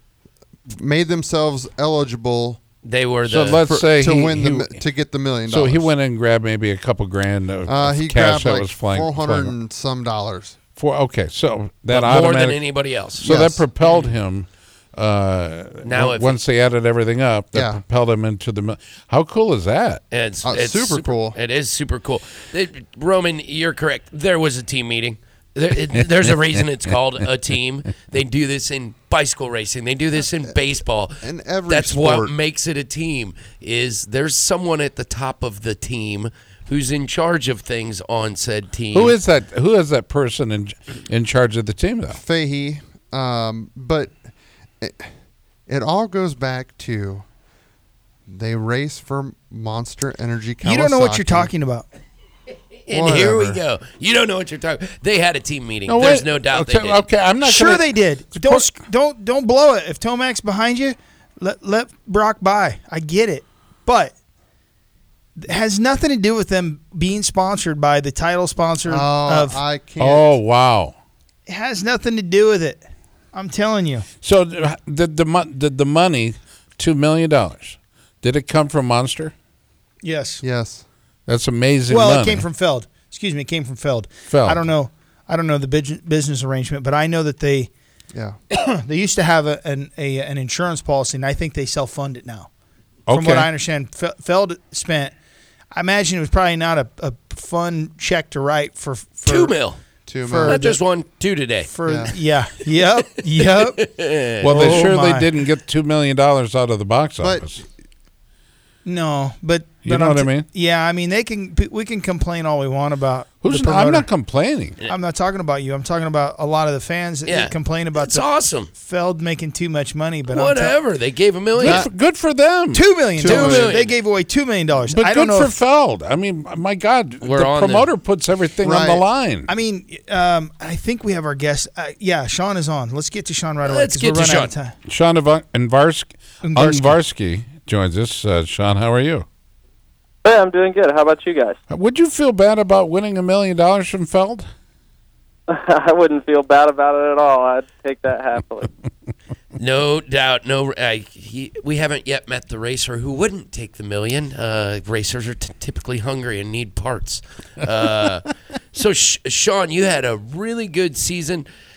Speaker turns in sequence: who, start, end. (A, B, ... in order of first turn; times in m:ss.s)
0:00.7-0:02.6 A
0:02.8-0:03.6 B
0:03.2-0:04.8 C
0:03.6-0:05.9 A
0:05.4-0:09.6 C
0:07.7-0:10.6 A
0:10.6-0:20.0 C
0:11.9-0:13.3 B
0:13.3-0:13.6 A
0:15.8-0:16.4 B
0:17.6-0:17.8 A
0:20.1-0:39.2 B
0:20.4-0:21.4 A
0:31.2-0:32.4 A
0:38.9-0:42.2 C
0:42.1-0:44.2 A
0:44.8-0:45.1 A
0:45.7-0:47.2 A
0:48.3-0:51.5 A
0:50.6-0:51.9 D
0:52.8-0:57.1 B
0:52.9-0:53.6 A
0:55.9-0:58.7 C
0:57.4-1:04.1 D
1:05.4-1:09.6 D
1:08.9-1:10.4 A
1:10.0-1:11.0 C
1:11.5-1:14.0 D
1:14.2-1:19.3 C
1:20.0-1:20.4 D
1:20.4-1:20.8 A
1:21.3-1:22.4 C
1:21.9-1:27.7 D
1:24.3-1:24.6 C
1:28.5-1:32.5 D
1:33.1-1:33.5 C
1:33.1-1:35.1 D
1:35.7-1:39.7 D
1:39.3-1:39.8 B
1:40.1-1:40.5 A
1:40.2-1:40.8 D
1:40.5-1:41.7 B
1:41.6-1:43.9 D
1:41.9-1:42.2 A
1:43.8-1:44.8 B
1:44.4-1:47.6 C
1:44.4-1:45.3 D
1:47.2-1:47.5 A
1:48.8-1:54.1 D
1:49.8-1:50.5 C
1:53.4-1:54.8 C
1:54.8-2:00.8 D
1:57.2-1:58.7 B
2:00.3-2:01.9 B
2:01.6-2:03.0 C
2:02.7-2:05.6 D
2:03.2-2:03.7 A
2:03.2-2:04.0 B
2:04.9-2:09.5 C
2:07.2-2:07.9 B
2:08.6-2:09.0 A
2:09.5-2:14.8 D
2:13.6-2:14.5 B
2:14.9-2:19.2 C
2:16.4-2:17.0 D
2:20.2-2:21.6 E
2:21.7-2:24.5 C
2:25.5-2:28.7 E
2:29.6-2:41.5 B